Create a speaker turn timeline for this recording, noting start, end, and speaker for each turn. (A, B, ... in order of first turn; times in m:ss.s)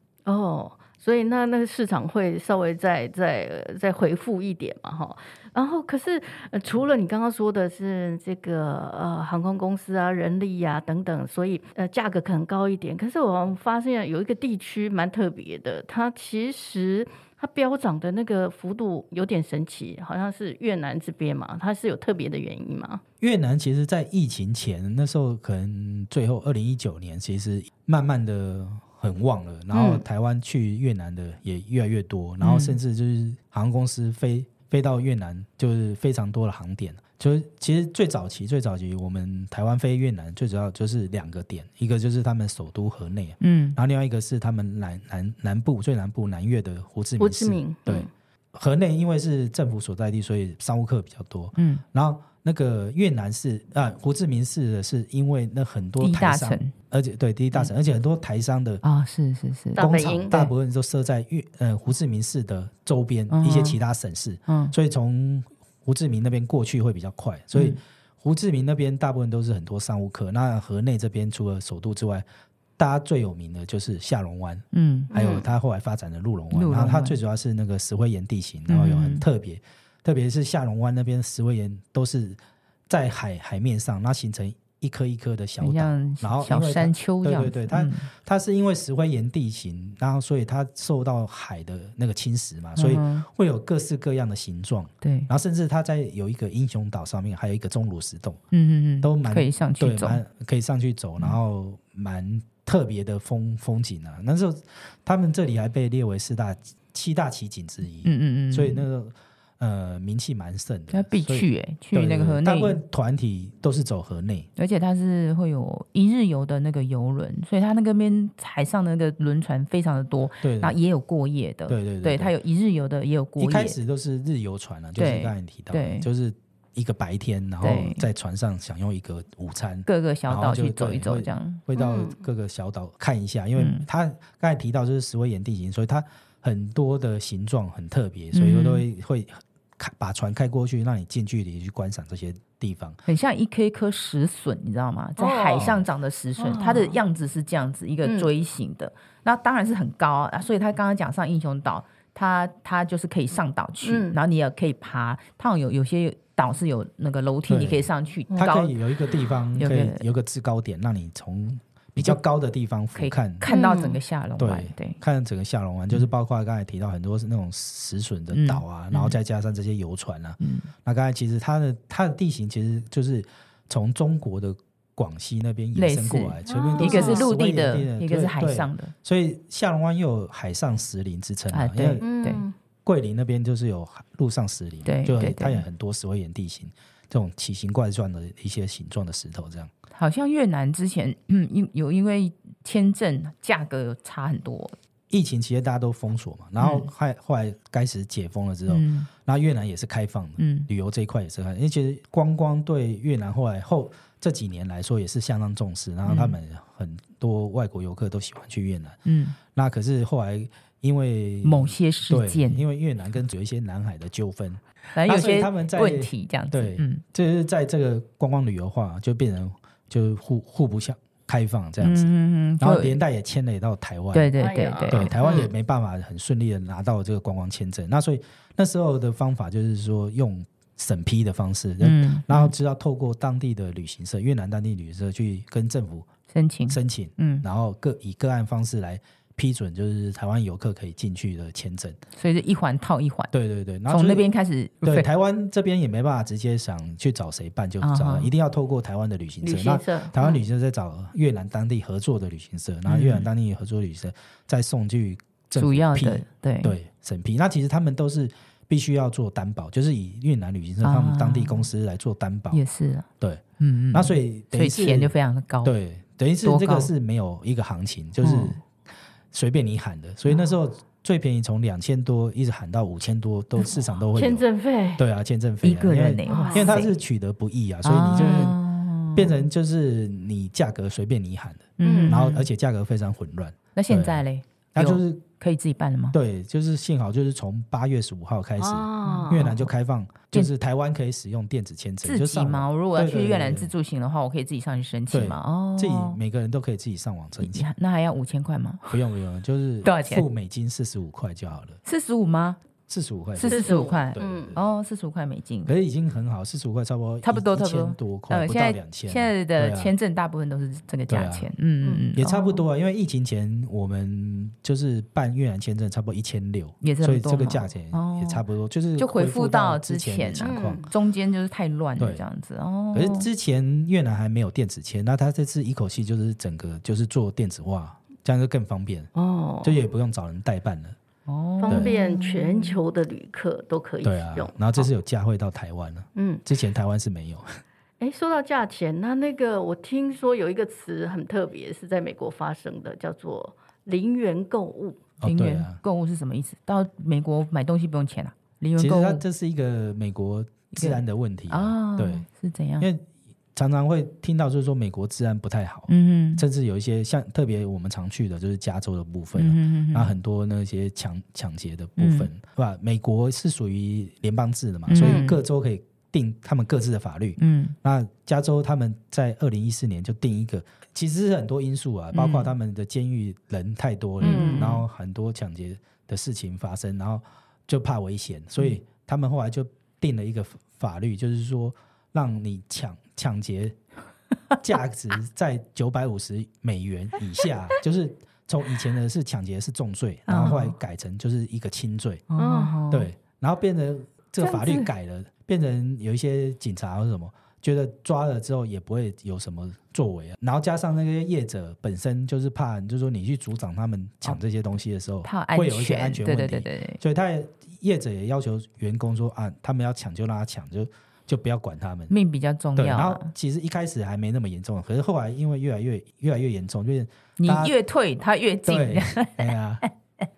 0:00.2-0:23.0 A
0:23.2-0:58.8 B
0:29.7-0:30.0 A
0:32.4-0:32.8 C
0:43.4-0:43.8 C
0:47.2-0:48.1 A
0:51.6-0:51.8 C
0:56.0-0:56.7 C
0:58.8-0:59.8 C
0:59.8-1:00.5 A
0:59.8-1:12.2 B
1:03.3-1:03.8 C
1:04.5-1:04.7 C
1:07.5-1:07.8 C
1:12.8-1:38.4 B
1:14.7-1:15.1 C
1:15.1-1:15.5 A
1:16.5-1:17.2 C
1:18.7-1:19.2 C
1:25.6-1:28.1 C
1:32.8-1:33.3 C
1:35.0-1:35.3 C
1:38.5-1:40.2 C
1:39.0-1:54.5 B
1:48.0-1:48.8 C
1:50.9-1:52.8 C
1:54.6-2:03.8 C
2:00.4-2:00.8 B
2:01.7-2:02.3 B
2:03.4-2:23.0 B
2:05.0-2:06.1 C
2:07.6-2:08.0 C
2:09.8-2:11.6 C
2:11.7-2:12.2 A
2:13.6-2:13.8 C
2:18.3-2:18.8 C
2:23.1-2:38.8 C
2:25.2-2:25.7 A
2:25.5-2:25.8 B
2:26.4-2:27.0 A
2:28.0-2:28.3 A
2:33.8-2:34.2 A
2:37.5-2:43.5 B
2:39.6-2:40.0 C
2:42.9-2:45.0 C
2:43.5-2:44.0 A
2:44.4-3:02.0 B
2:48.3-2:49.2 C
2:50.4-2:50.7 C
2:55.7-2:58.9 C
2:56.5-2:57.3 A
3:01.5-3:02.4 C
3:02.0-3:02.5 A
3:02.8-3:09.7 B
3:04.8-3:05.6 C
3:09.9-3:14.8 C
3:15.1-3:29.0 B
3:16.6-3:16.9 C
3:18.7-3:19.1 C
3:20.4-3:20.7 C
3:26.0-3:26.4 C
3:29.0-3:29.4 C
3:29.5-3:44.3 B
3:31.4-3:32.6 C
3:34.9-3:37.0 C
3:41.8-3:43.0 C
3:44.1-3:45.2 C
3:44.4-3:45.5 A
3:44.9-3:56.1 B
3:51.8-3:52.5 C
3:56.3-3:57.4 C
3:56.7-4:02.0 B
4:02.2-4:03.3 C
4:03.3-4:04.3 B
4:03.9-4:05.1 C
4:04.8-4:22.6 B
4:07.8-4:08.3 C
4:09.4-4:10.4 A
4:12.9-4:13.3 C
4:15.6-4:16.7 C
4:20.8-4:21.6 C
4:22.5-4:23.1 C
4:23.2-4:28.6 B
4:23.6-4:25.7 C
4:26.4-4:26.9 C
4:28.2-4:28.6 C
4:29.3-4:38.6 B
4:34.1-4:35.0 A
4:35.6-4:37.0 C
4:36.2-4:36.8 A
4:37.8-4:39.4 C
4:38.2-4:38.5 A
4:39.1-4:45.2 B
4:41.8-4:42.5 C
4:41.8-4:42.2 A
4:43.8-4:46.2 C
4:46.1-4:53.7 B
4:48.6-4:49.5 A
4:49.0-4:49.7 C
4:52.0-4:56.2 C
4:55.1-4:57.7 B
4:57.4-4:59.0 C
4:58.9-5:01.8 B
4:59.8-5:00.2 C
5:01.8-5:02.6 C
5:02.9-5:04.6 B
5:03.4-5:05.7 C
5:03.4-5:04.6 A
5:05.6-5:09.9 B
5:07.2-5:12.6 C
5:11.1-5:11.5 B
5:11.8-5:12.1 A
5:12.2-5:20.9 B
5:16.8-5:18.4 C
5:19.0-5:23.3 C
5:20.4-5:20.9 A
5:22.0-5:22.2 B
5:22.9-5:29.1 B
5:29.1-5:29.8 A
5:29.6-5:31.0 B
5:31.3-5:32.8 C
5:31.6-5:34.9 A
5:34.0-5:37.6 B
5:36.2-5:36.4 A
5:38.0-5:45.0 A
5:45.2-5:45.8 B
5:45.2-5:49.2 C
5:48.8-5:52.2 B
5:50.7-5:52.9 C
5:52.8-6:23.8 B
5:55.9-5:56.4 C
5:59.4-6:00.1 C
6:02.0-6:02.3 C
6:04.9-6:05.4 C
6:05.0-6:05.3 A
6:07.4-6:07.8 C
6:12.1-6:12.5 C
6:14.2-6:14.7 A
6:14.2-6:14.8 C
6:24.6-6:32.2 B
6:30.3-6:30.7 C
6:32.3-6:33.1 C
6:32.4-6:32.8 A
6:32.9-6:52.1 B
6:34.4-6:34.9 C
6:45.2-6:47.0 C
6:52.1-6:53.3 C
6:52.8-6:57.8 B
6:57.4-6:59.9 C
6:58.6-6:59.8 B